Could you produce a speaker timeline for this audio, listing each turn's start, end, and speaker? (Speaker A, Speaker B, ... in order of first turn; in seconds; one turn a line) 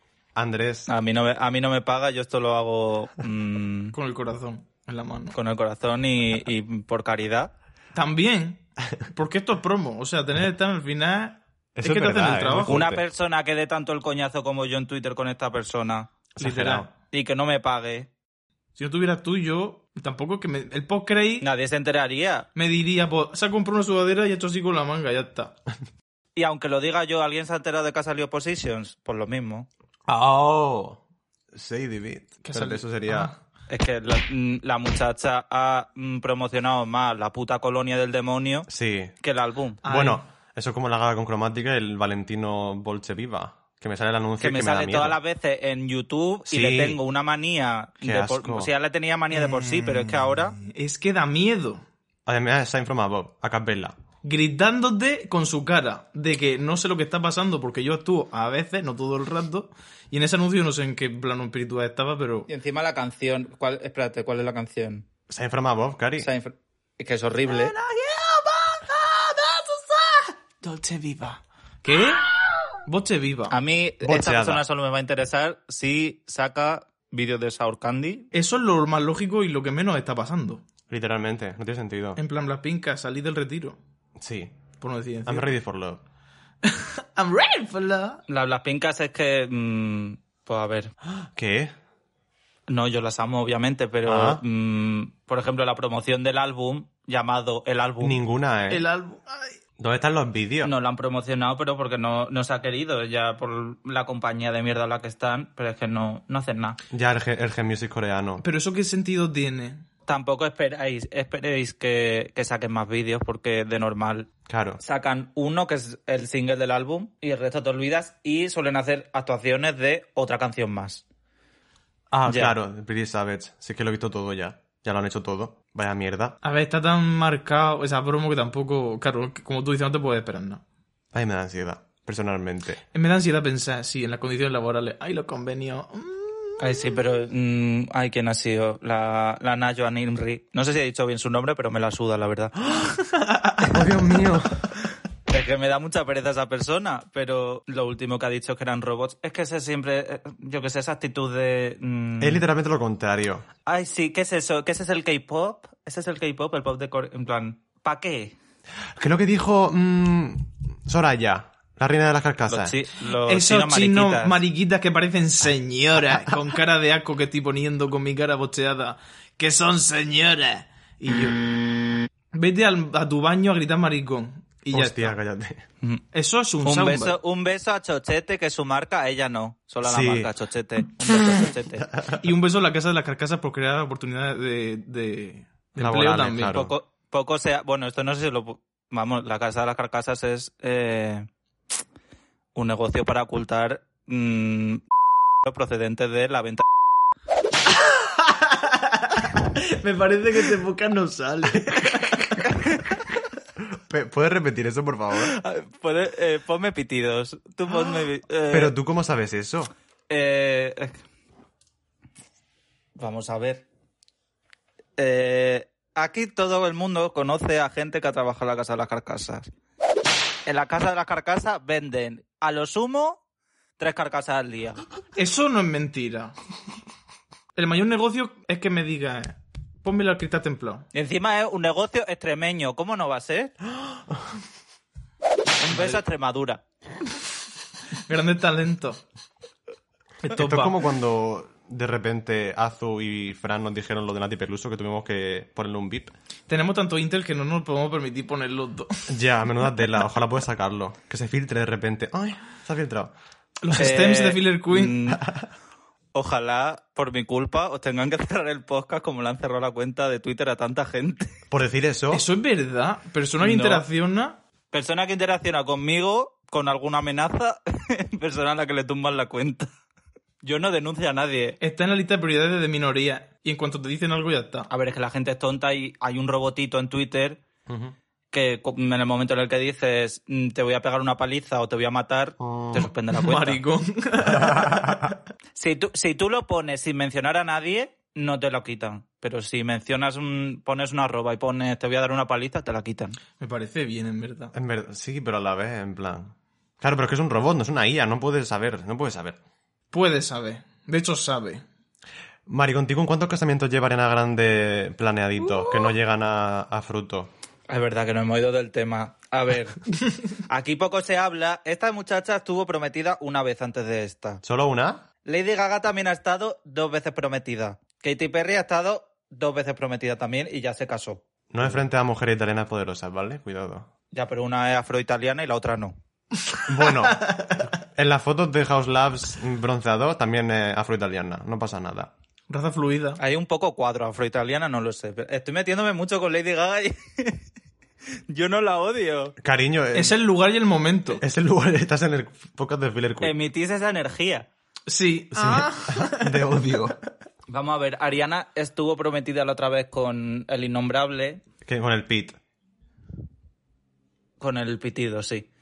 Speaker A: 0.3-0.9
Speaker B: 0.9-3.9
Speaker C: 3.9-5.3
Speaker B: 5.3-7.5
Speaker C: 7.9-12.8
Speaker A: 11.8-13.0
Speaker B: 12.6-16.1
Speaker C: 16.4-16.9
Speaker A: 16.4-16.9
Speaker B: 17.1-18.1
Speaker C: 18.8-21.5
Speaker B: 21.4-22.5
Speaker C: 22.5-25.5
Speaker B: 26.3-29.7
Speaker A: 30.1-31.0
Speaker A: 31.5-33.3
Speaker C: 32.4-33.4
Speaker B: 33.7-38.7
Speaker A: 38.7-39.1
Speaker B: 39.2-39.8
Speaker C: 39.8-40.2
Speaker A: 39.8-45.2
Speaker B: 44.4-50.5
Speaker A: 46.5-47.0
Speaker A: 48.0-48.7
Speaker C: 49.3-51.8
Speaker A: 52.2-54.0
Speaker C: 54.2-62.5
Speaker B: 62.5-65.0
Speaker A: 65.3-66.3
Speaker B: 66.2-67.7
Speaker C: 67.6-72.3
Speaker C: 72.8-73.5
Speaker B: 73.5-78.3
Speaker A: 74.0-74.6
Speaker C: 78.3-80.6
Speaker A: 80.9-82.2
Speaker C: 82.2-83.8
Speaker A: 84.2-84.5
Speaker C: 84.8-85.5
Speaker A: 85.2-86.0
Speaker C: 86.6-88.2
Speaker B: 88.3-90.9
Speaker A: 91.0-91.7
Speaker B: 92.7-98.2
Speaker A: 94.0-94.4
Speaker A: 98.0-98.8
Speaker C: 98.7-99.6
Speaker A: 99.8-100.7
Speaker B: 100.6-106.8
Speaker A: 106.9-108.4
Speaker C: 108.4-109.8
Speaker B: 110.1-114.3
Speaker A: 114.5-114.8
Speaker B: 114.8-121.0
Speaker A: 122.1-126.3
Speaker B: 122.3-122.5
Speaker C: 126.4-130.6
Speaker A: 131.1-132.8
Speaker C: 132.9-136.8
Speaker B: 136.6-142.6
Speaker C: 142.8-143.8
Speaker A: 143.6-144.7
Speaker B: 145.3-152.4
Speaker A: 152.2-153.4
Speaker B: 153.7-158.3
Speaker A: 158.9-162.7
Speaker B: 162.5-164.4
Speaker C: 163.2-171.5
Speaker C: 172.3-175.2
Speaker A: 174.7-175.6
Speaker C: 176.1-177.2
Speaker B: 176.6-181.9
Speaker A: 179.8-180.3
Speaker C: 182.1-186.5
Speaker A: 185.8-186.7
Speaker B: 186.5-191.3
Speaker B: 192.5-194.8
Speaker B: 195.4-196.6
Speaker C: 197.7-202.5
Speaker A: 203.7-205.3
Speaker B: 205.2-208.7
Speaker A: 208.5-209.7
Speaker B: 210.1-211.0
Speaker B: 212.9-213.7
Speaker B: 215.0-219.5
Speaker B: 220.4-223.2
Speaker B: 223.8-224.8
Speaker C: 225.2-226.3
Speaker C: 227.5-230.9
Speaker B: 230.9-233.5
Speaker A: 233.8-234.2
Speaker B: 235.6-236.6
Speaker C: 235.7-236.0
Speaker C: 237.9-239.0
Speaker C: 240.2-240.8
Speaker A: 240.3-246.1
Speaker C: 246.5-249.1
Speaker A: 249.1-253.1
Speaker C: 253.6-255.1
Speaker B: 253.8-255.3
Speaker B: 256.1-261.4
Speaker A: 261.5-262.2
Speaker C: 262.1-264.4
Speaker B: 263.4-263.8
Speaker B: 264.7-269.7
Speaker B: 270.4-271.6
Speaker C: 271.6-274.7
Speaker B: 274.7-277.4
Speaker A: 277.7-277.9
Speaker B: 278.3-283.6
Speaker A: 282.4-282.9
Speaker C: 283.1-285.1
Speaker A: 284.4-285.1
Speaker B: 285.6-293.2
Speaker C: 293.4-294.5
Speaker A: 294.5-299.4
Speaker C: 299.9-301.6
Speaker A: 302.5-307.3
Speaker B: 307.7-309.8
Speaker B: 310.3-314.4
Speaker A: 314.4-315.0
Speaker B: 315.2-321.2
Speaker A: 321.5-323.9
Speaker B: 324.1-325.9
Speaker C: 326.5-327.6
Speaker A: 326.7-332.1
Speaker C: 332.5-333.2
Speaker B: 333.2-337.4
Speaker B: 338.3-339.4
Speaker A: 339.4-340.1
Speaker C: 339.9-341.2
Speaker A: 341.2-343.3
Speaker B: 343.2-344.5
Speaker C: 344.9-346.6
Speaker A: 345.3-347.0
Speaker B: 347.5-351.4
Speaker A: 351.6-352.4
Speaker B: 354.4-355.5